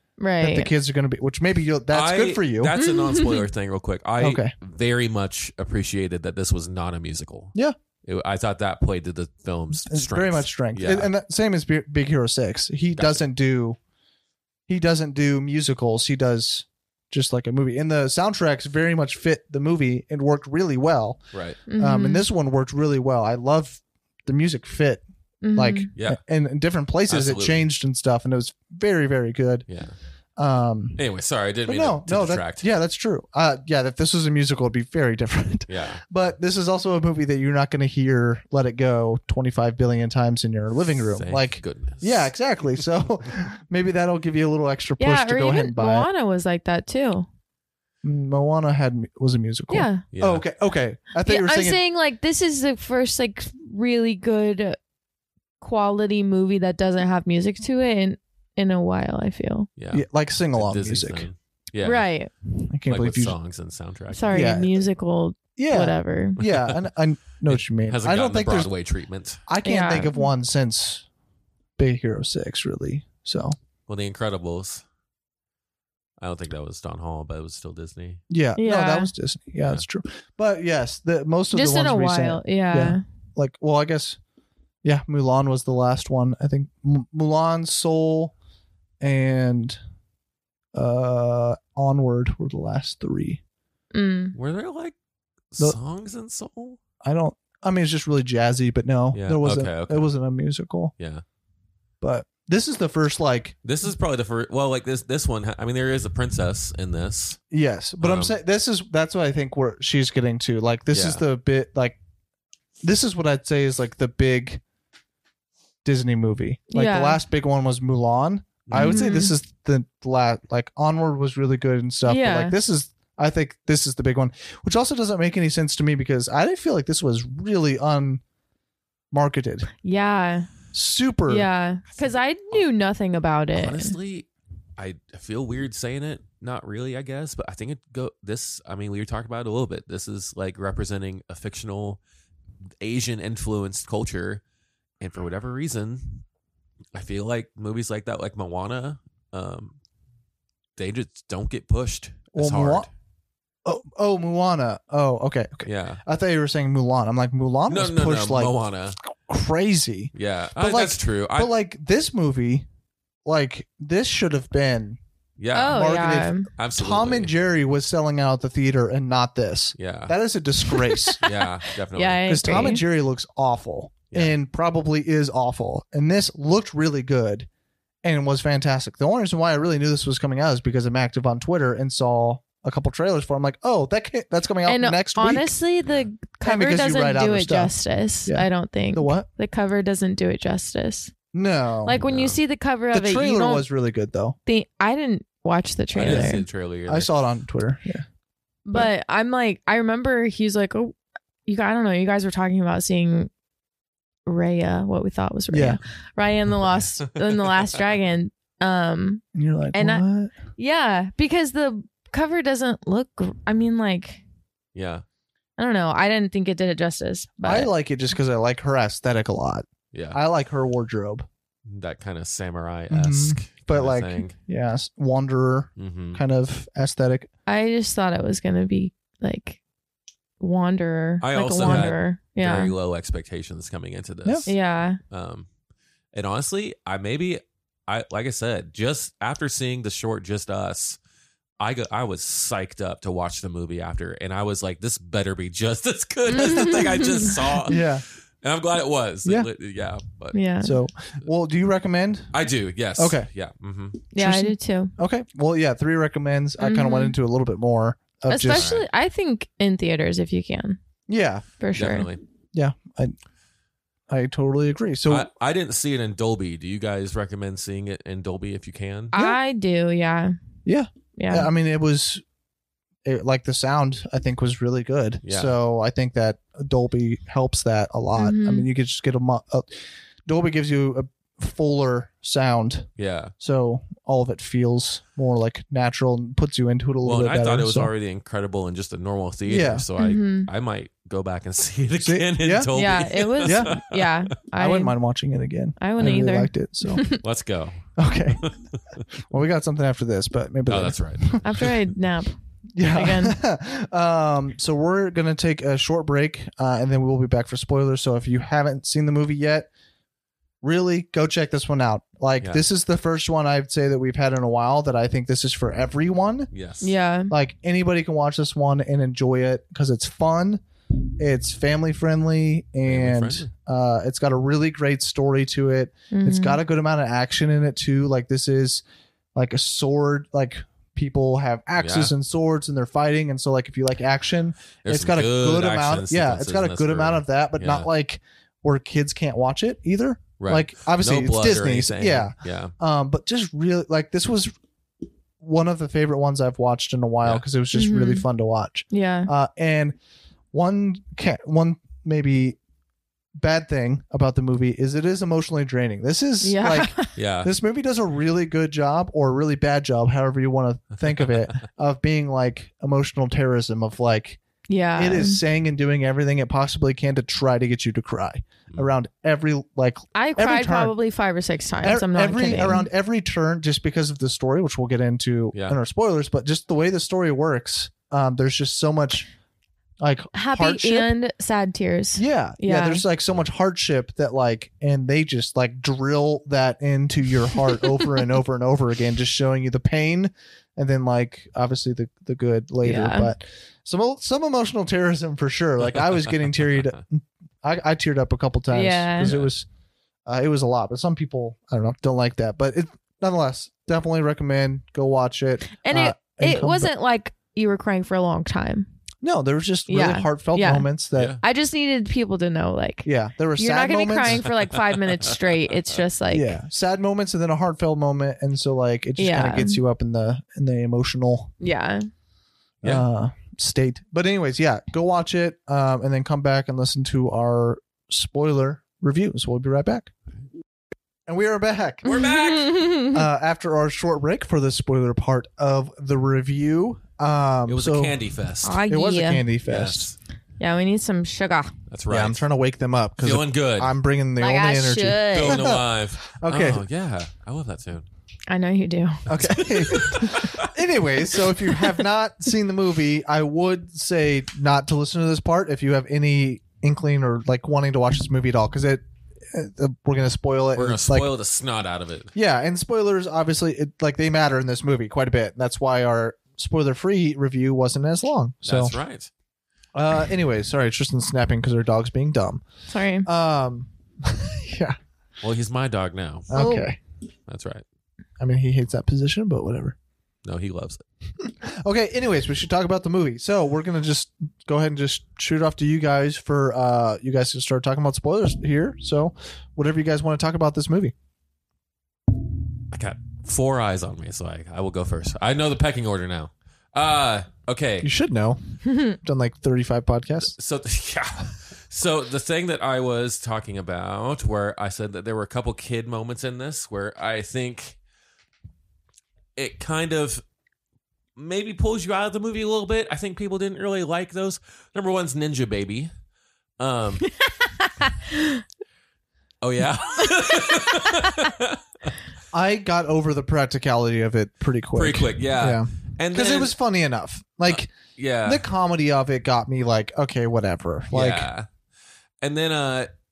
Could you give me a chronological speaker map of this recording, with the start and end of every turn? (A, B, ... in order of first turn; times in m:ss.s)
0:00.2-0:00.7 A
0:00.4-0:02.7 B
0:01.9-0:07.5 C
0:02.8-0:03.5 A
0:04.2-0:04.5 B
0:08.0-0:11.1 C
0:09.8-0:13.8 B
0:12.9-0:13.2 C
0:14.7-0:21.2 B
0:21.3-0:21.6 C
0:21.7-0:22.2 A
0:21.8-0:25.0 B
0:25.4-0:25.9 A
0:25.6-0:29.7 B
0:27.1-0:27.6 C
0:29.7-0:30.0 C
0:30.4-0:31.0 B
0:31.0-0:32.6 C
0:31.7-0:46.1 B
0:35.7-0:36.0 C
0:41.0-0:42.3 C
0:45.0-0:47.3 A
0:48.0-0:51.8 B
0:49.7-0:50.0 A
0:50.1-0:50.4 C
0:51.2-0:54.8 A
0:55.6-0:59.7 A
0:59.8-1:02.1 C
0:59.9-1:01.3 B
1:01.8-1:02.3 A
1:02.6-1:03.4 B
1:02.9-1:04.4 C
1:04.1-1:06.4 A
1:04.3-1:04.8 B
1:05.6-1:08.7 B
1:06.4-1:06.9 C
1:07.5-1:09.4 C
1:09.5-1:11.1 B
1:09.6-1:10.3 A
1:11.8-1:13.6 B
1:13.9-1:14.8 C
1:16.2-1:18.2 C
1:18.3-1:24.2 B
1:18.6-1:19.1 A
1:21.5-1:23.0 A
1:24.8-1:28.3 B
1:29.0-1:29.8 B
1:30.7-1:33.4 B
1:33.9-1:34.4 A
1:34.4-1:35.0 C
1:35.5-1:36.8 C
1:37.0-1:40.9 B
1:39.1-1:40.1 C
1:41.0-1:41.2 C
1:42.0-1:43.6 B
1:43.6-1:47.4 C
1:47.5-1:52.0 B
1:48.0-1:48.3 C
1:50.9-1:51.2 C
1:52.8-1:54.6 B
1:55.8-2:08.2 B
1:56.7-1:57.2 A
1:58.7-1:59.1 C
1:58.8-1:59.3 A
2:02.0-2:02.6 A
2:09.1-2:09.7 B
2:09.8-2:10.5 A
2:10.7-2:11.5 B
2:11.3-2:14.0 A
2:12.0-2:12.6 C
2:13.5-2:22.0 C
2:22.8-2:24.4 C
2:25.0-2:26.2 C
2:26.9-2:29.8 C
2:30.8-2:32.9 C
2:32.3-2:32.9 B
2:33.6-2:38.5 B
2:35.7-2:36.0 C
2:37.7-2:39.0 C
2:39.2-2:42.7 B
2:40.2-2:41.5 C
2:43.2-2:45.0 B
2:45.4-2:45.8 C
2:45.5-2:46.5 A
2:45.7-2:51.2 B
2:46.5-2:47.4 C
2:49.8-2:50.2 C
2:50.9-2:52.8 A
2:51.2-2:52.4 C
2:52.3-2:57.5 B
2:58.0-3:05.5 B
3:04.7-3:11.1 A
3:06.4-3:07.7 B
3:08.3-3:09.3 B
3:11.3-3:12.0 B
3:11.8-3:13.6 A
3:12.1-3:12.4 C
3:12.9-3:14.4 B
3:14.5-3:16.4 A
3:15.9-3:17.1 C
3:16.0-3:18.0 B
3:18.7-3:23.3 A
3:24.3-3:30.0 A
3:25.5-3:25.8 B
3:29.3-3:30.3 B
3:30.6-3:34.2 A
3:34.8-3:35.0 C
3:35.6-3:37.7 A
3:37.4-3:41.3 B
3:39.9-3:40.2 C
3:41.7-3:44.4 C
3:42.9-3:47.3 B
3:45.8-3:46.2 C
3:47.5-3:49.6 A
3:50.4-3:52.7 A
3:51.2-3:54.6 C
3:51.6-3:51.9 B
3:54.5-3:55.0 A
3:55.1-3:55.5 C
3:56.1-4:01.0 C
4:01.6-4:07.9 C
4:06.3-4:07.7 A
4:07.7-4:08.0 B
4:08.4-4:10.4 C
4:10.3-4:10.8 A
4:10.6-4:12.4 B
4:12.3-4:14.0 C
4:13.0-4:13.3 B
4:14.1-4:14.9 A
4:14.2-4:18.7 B
4:16.6-4:17.2 A
4:18.3-4:20.8 A
4:18.5-4:18.9 C
4:21.1-4:21.5 B
4:21.6-4:22.1 A
4:21.8-4:22.2 C
4:22.5-4:23.2 B
4:24.1-4:25.3 B
4:25.1-4:29.1 C
4:29.1-4:30.4 A
4:30.7-4:32.2 B
4:31.2-4:31.5 A
4:33.0-4:47.9 B
4:35.2-4:35.5 C
4:38.2-4:38.7 A
4:43.0-4:43.3 C
4:47.0-4:54.2 C
4:49.5-4:49.9 B
4:50.0-4:50.5 A
4:52.0-4:52.7 B
4:52.7-4:54.9 A
4:53.4-4:53.8 B
4:54.5-4:57.0 B
4:55.8-4:57.2 A
4:57.1-4:59.0 C
4:58.0-4:58.4 B
4:59.2-5:01.7 B
5:00.7-5:01.4 C
5:01.4-5:03.4 A
5:02.8-5:09.7 B
5:10.6-5:16.5 B
5:16.5-5:16.9 C
5:16.8-5:17.3 A
5:17.3-5:20.6 B
5:21.2-5:28.8 B
5:22.9-5:23.5 C
5:26.1-5:26.6 A
5:29.4-5:44.5 B
5:31.8-5:32.1 C
5:34.8-5:37.9 C
5:40.4-5:42.7 C
5:45.4-5:50.0 B
5:47.7-5:48.3 A
5:48.9-5:49.3 A
5:50.5-5:52.6 B
5:53.4-6:04.4 B
5:56.4-5:57.1 A
5:57.2-5:57.5 C
6:04.7-6:05.4 A
6:05.0-6:10.9 B
6:10.2-6:12.9 A
6:11.8-6:19.3 B
6:20.0-6:21.1 B
6:20.3-6:23.0 A
6:22.2-6:39.7 B
6:32.8-6:33.3 A
6:38.7-6:39.3 A
6:39.2-6:39.5 C
6:40.3-6:46.9 B
6:45.7-6:48.9 A
6:49.2-6:51.4 B
6:49.9-6:50.9 A
6:51.4-6:56.6 A
6:53.0-6:54.5 B
6:56.3-7:01.5 B
6:59.2-6:59.8 A
7:01.6-7:02.1 A
7:02.8-7:10.1 B
7:11.3-7:12.1 B
7:12.0-7:12.9 C
7:12.0-7:13.2 A
7:13.1-7:18.2 B
7:17.7-7:18.8 C
7:18.6-7:19.4 A
7:18.9-7:20.1 B
7:19.7-7:20.2 C
7:20.6-7:21.7 A
7:21.9-7:22.4 C
7:22.1-7:26.8 B
7:23.2-7:23.9 C
7:24.4-7:25.6 A
7:25.3-7:28.1 C
7:28.5-7:29.3 A
7:29.3-7:41.3 B
7:29.3-7:30.7 C
7:29.9-7:30.3 A
7:40.8-7:42.3 C
7:42.3-7:49.0 B
7:48.6-7:49.3 C
7:50.0-7:52.6 B
7:52.9-7:53.3 A
7:53.3-7:55.0 B
7:55.4-7:56.6 C
7:56.5-7:57.0 B
7:56.5-7:56.9 A
7:57.5-7:57.8 C
7:58.4-8:00.0 B
8:00.4-8:01.0 C
8:01.4-8:11.1 B
8:12.9-8:18.1 C
8:18.0-8:20.5 B
8:18.9-8:19.1 A
8:20.4-8:28.0 C
8:29.6-8:30.4 C
8:31.4-8:36.1 C
8:36.8-8:37.3 C
8:37.3-8:38.6 A
8:39.6-8:41.8 C
8:40.2-8:41.5 A
8:42.5-8:47.9 B
8:44.9-8:46.8 C
8:47.7-8:48.6 C
8:48.5-8:51.5 B
8:51.1-8:51.7 C
8:52.4-8:53.1 C